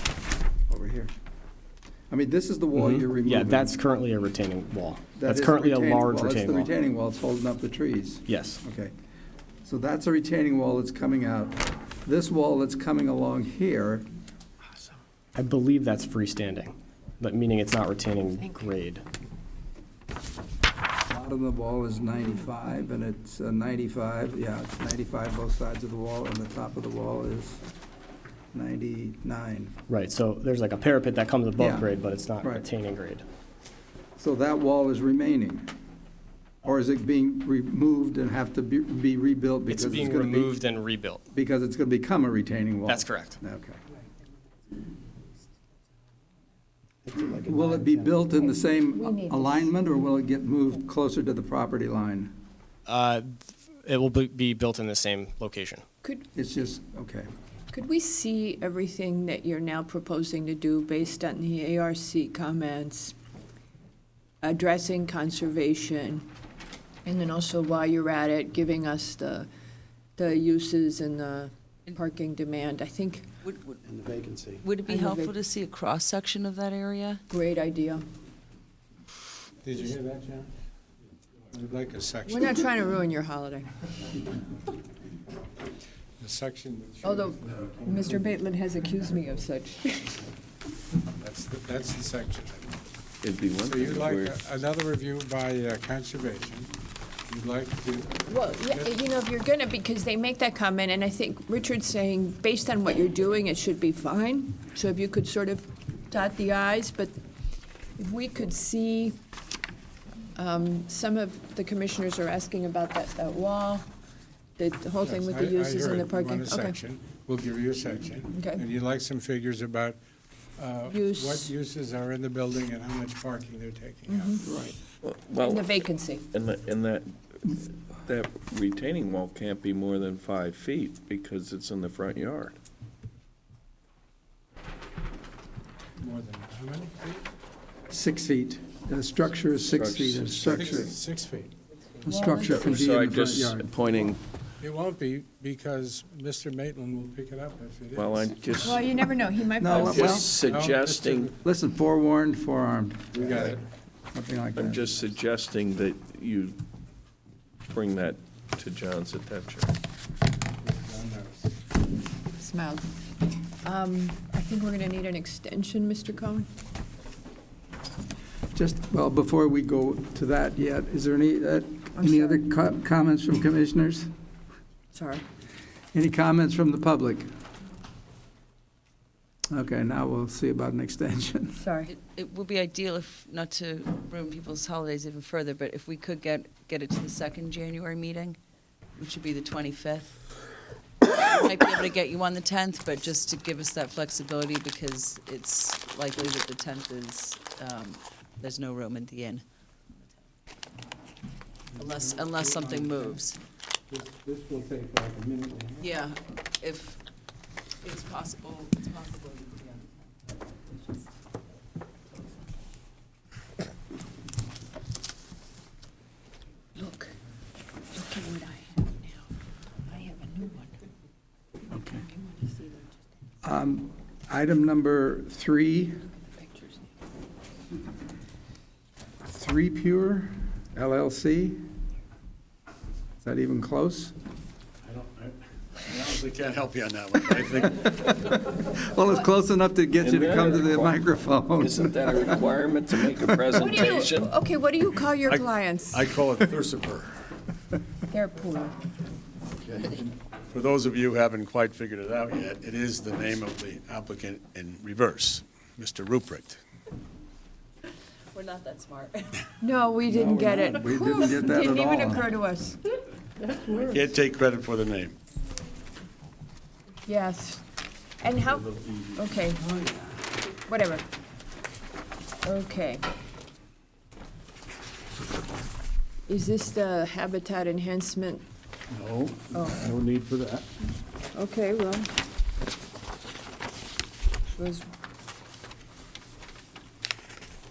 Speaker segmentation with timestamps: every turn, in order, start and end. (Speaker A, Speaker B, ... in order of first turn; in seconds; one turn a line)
Speaker A: 0.7-1.1
Speaker A: 2.1-3.8
Speaker B: 2.7-6.7
Speaker A: 5.2-8.9
Speaker B: 8.3-8.6
Speaker A: 9.6-14.1
Speaker B: 15.4-19.0
Speaker A: 21.1-27.6
Speaker A: 28.5-29.7
Speaker B: 29.9-33.2
Speaker A: 31.6-31.9
Speaker A: 34.2-35.7
Speaker A: 36.6-40.5
Speaker B: 39.7-41.2
Speaker A: 41.3-43.8
Speaker B: 42.9-43.4
Speaker B: 47.1-48.0
Speaker A: 47.5-52.4
Speaker C: 48.4-49.7
Speaker B: 52.9-55.8
Speaker A: 56.3-57.3
Speaker C: 57.7-63.1
Speaker C: 64.4-66.3
Speaker C: 67.0-69.5
Speaker C: 70.2-73.3
Speaker D: 73.4-73.8
Speaker B: 74.0-74.6
Speaker D: 74.6-77.2
Speaker C: 74.8-75.4
Speaker C: 77.3-78.0
Speaker E: 79.6-80.5
Speaker E: 81.5-82.7
Speaker C: 82.3-83.7
Speaker E: 86.2-88.3
Speaker C: 87.0-90.2
Speaker E: 91.2-92.8
Speaker F: 93.2-94.4
Speaker E: 93.6-96.7
Speaker E: 97.3-98.9
Speaker C: 98.3-107.1
Speaker C: 108.0-109.2
Speaker C: 110.3-113.9
Speaker C: 114.6-116.8
Speaker E: 115.0-120.0
Speaker C: 118.3-118.6
Speaker E: 120.6-124.5
Speaker C: 120.9-121.5
Speaker C: 124.1-124.5
Speaker A: 124.5-124.8
Speaker F: 125.0-125.8
Speaker C: 125.4-126.3
Speaker F: 126.3-132.6
Speaker E: 136.0-137.2
Speaker A: 137.9-140.9
Speaker F: 139.7-140.9
Speaker E: 140.5-141.5
Speaker A: 142.1-143.7
Speaker C: 142.1-142.8
Speaker F: 142.4-144.2
Speaker E: 144.6-148.2
Speaker F: 147.9-149.1
Speaker C: 148.6-150.3
Speaker A: 149.6-150.3
Speaker F: 149.7-151.3
Speaker E: 150.4-151.3
Speaker A: 151.4-153.6
Speaker E: 153.2-153.6
Speaker A: 154.1-154.8
Speaker F: 154.6-156.6
Speaker F: 157.7-159.7
Speaker E: 160.6-161.6
Speaker C: 162.4-163.1
Speaker C: 163.6-166.5
Speaker A: 168.6-174.1
Speaker C: 172.0-172.4
Speaker C: 174.9-175.2
Speaker A: 175.9-177.3
Speaker A: 179.5-181.6
Speaker C: 181.6-181.9
Speaker D: 181.9-188.4
Speaker D: 189.0-190.2
Speaker D: 191.3-199.4
Speaker E: 201.8-203.0
Speaker D: 201.8-203.4
Speaker E: 203.9-205.9
Speaker D: 205.8-207.0
Speaker D: 207.8-209.9
Speaker C: 216.8-217.1
Speaker C: 217.9-219.2
Speaker C: 219.9-220.8
Speaker A: 221.7-222.0
Speaker C: 222.0-222.9
Speaker A: 223.4-226.0
Speaker C: 226.4-226.8
Speaker A: 229.2-231.6
Speaker A: 233.2-234.1
Speaker G: 234.8-238.1
Speaker A: 238.1-242.2
Speaker F: 240.0-241.0
Speaker F: 241.6-244.3
Speaker C: 243.5-246.1
Speaker G: 245.3-247.2
Speaker C: 248.1-248.8
Speaker G: 250.5-256.6
Speaker D: 258.3-259.4
Speaker C: 259.6-262.8
Speaker A: 260.1-262.3
Speaker A: 263.7-264.0
Speaker G: 263.9-265.1
Speaker C: 267.1-267.6
Speaker C: 268.2-269.6
Speaker G: 268.6-270.0
Speaker C: 270.7-271.1
Speaker C: 272.4-273.1
Speaker C: 276.3-278.4
Speaker G: 278.9-280.7
Speaker C: 281.3-282.1
Speaker C: 284.5-284.9